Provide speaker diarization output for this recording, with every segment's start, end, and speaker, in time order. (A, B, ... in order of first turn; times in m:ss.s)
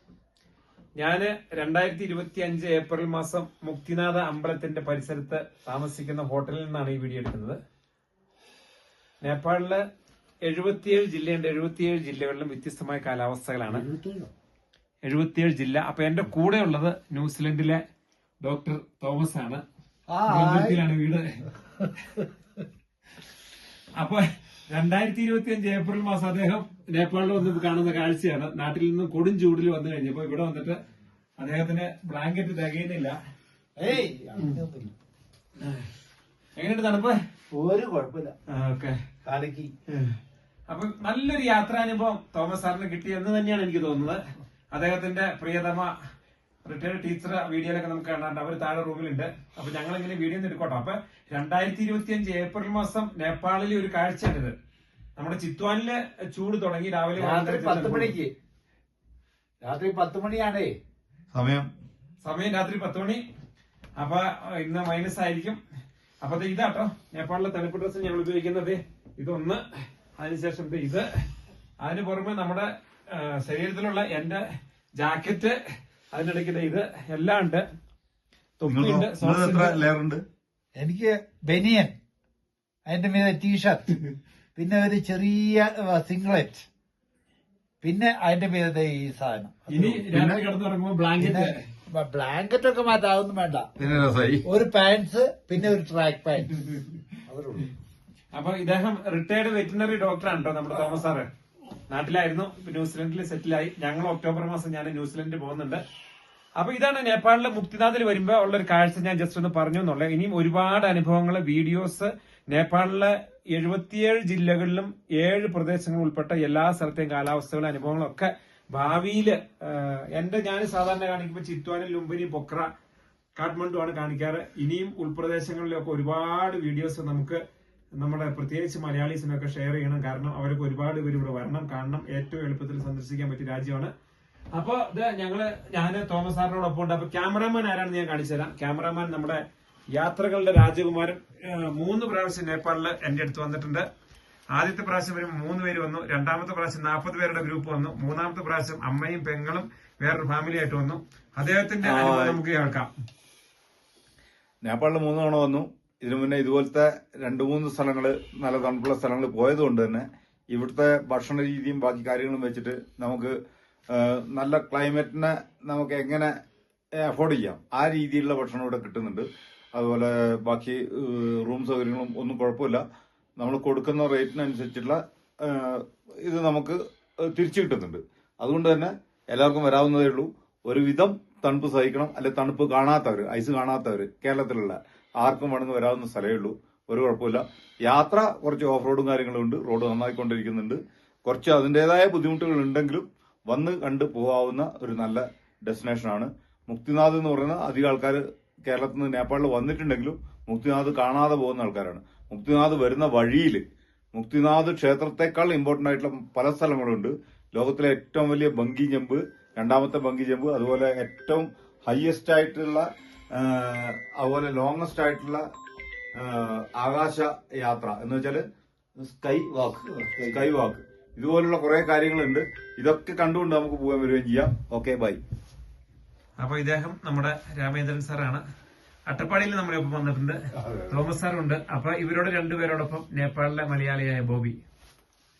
0:01.0-0:07.6 A
0:09.2-0:09.8 A
0:10.4-0:13.8 A
0:13.7-0:14.3 B
0:15.0-0:17.8 A
0:18.4-0:19.6 A
0:20.1-0:20.8 B
0:20.3-0:21.4 A
0:24.0-0:30.8 A
0:31.4-0:33.2 A
0:33.8-0:34.9 B
0:35.6-0:35.9 A
0:36.6-0:37.1 A
0:37.5-0:38.3 B
0:38.5-0:39.0 A
0:39.2-0:39.7 B
0:39.9-0:40.2 A
0:40.7-0:44.2 A
0:44.7-0:45.9 A
0:46.6-0:54.5 A
0:55.2-0:58.1 A
0:57.2-0:58.3 B
0:59.6-1:00.7 B
1:01.3-1:01.7 C
1:02.2-1:03.2 A
1:04.0-1:05.6 A
1:06.2-1:09.6 A
1:10.1-1:11.1 A
1:11.8-1:14.4 A
1:15.0-1:15.6 A
1:16.1-1:17.6 A
1:18.6-1:19.8 A
1:18.6-1:20.2 C
1:20.8-1:21.9 B
1:22.9-1:24.0 B
1:24.6-1:26.7 B
1:27.8-1:30.0 B
1:29.7-1:31.6 A
1:30.0-1:30.4 C
1:31.2-1:33.7 B
1:33.8-1:34.4 C
1:34.4-1:36.7 B
1:37.2-1:37.7 B
1:38.3-1:41.3 A
1:41.9-1:45.8 A
1:46.6-2:02.7 A
2:03.4-2:07.4 A
2:08.0-2:13.9 A
2:14.5-2:19.4 A
2:19.9-2:23.8 A
2:24.5-2:32.9 A
2:31.8-2:32.4 C
2:34.6-2:43.3 C
2:43.9-2:46.3 C
2:47.0-2:52.8 C
2:53.4-3:23.6 C
3:24.1-3:35.4 C
3:36.1-3:38.4 C
3:39.0-3:45.2 C
3:46.4-3:48.4 A
3:49.1-3:54.6 A
3:50.6-3:51.0 C